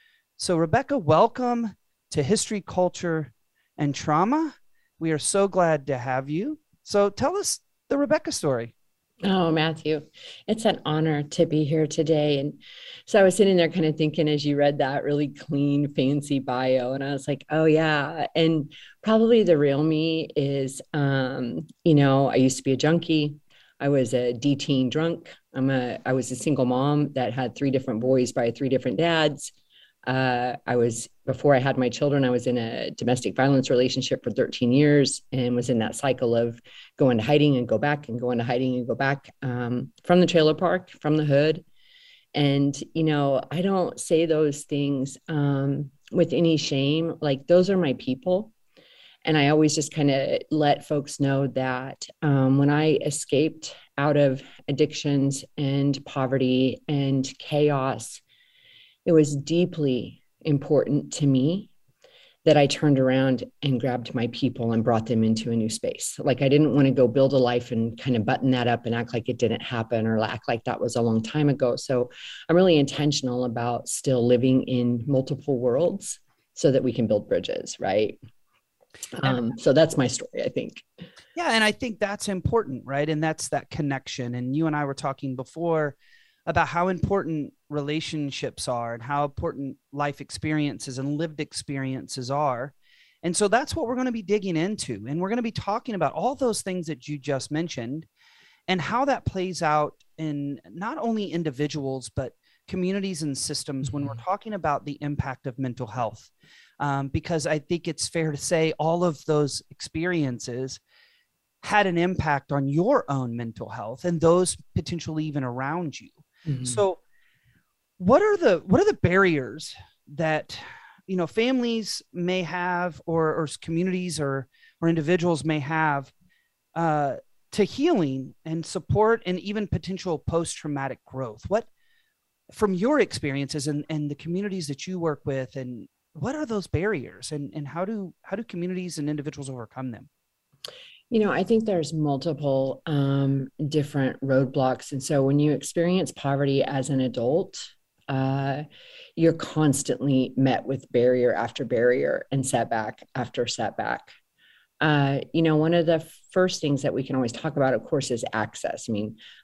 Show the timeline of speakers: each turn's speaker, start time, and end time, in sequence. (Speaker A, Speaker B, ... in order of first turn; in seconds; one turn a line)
Speaker A: 0.4-8.7
Speaker B: 9.2-29.5
Speaker B: 30.1-41.6
Speaker B: 42.4-48.5
Speaker B: 49.2-58.2
Speaker B: 59.0-61.7
Speaker B: 62.5-78.2
Speaker B: 79.1-80.8
Speaker A: 81.3-98.1
Speaker A: 98.7-110.8
Speaker B: 103.8-104.2
Speaker A: 111.6-117.0
Speaker B: 116.5-116.8
Speaker A: 118.0-126.1
Speaker A: 126.8-131.7
Speaker A: 132.5-140.1
Speaker B: 141.1-148.7
Speaker B: 149.2-154.1
Speaker B: 154.8-159.2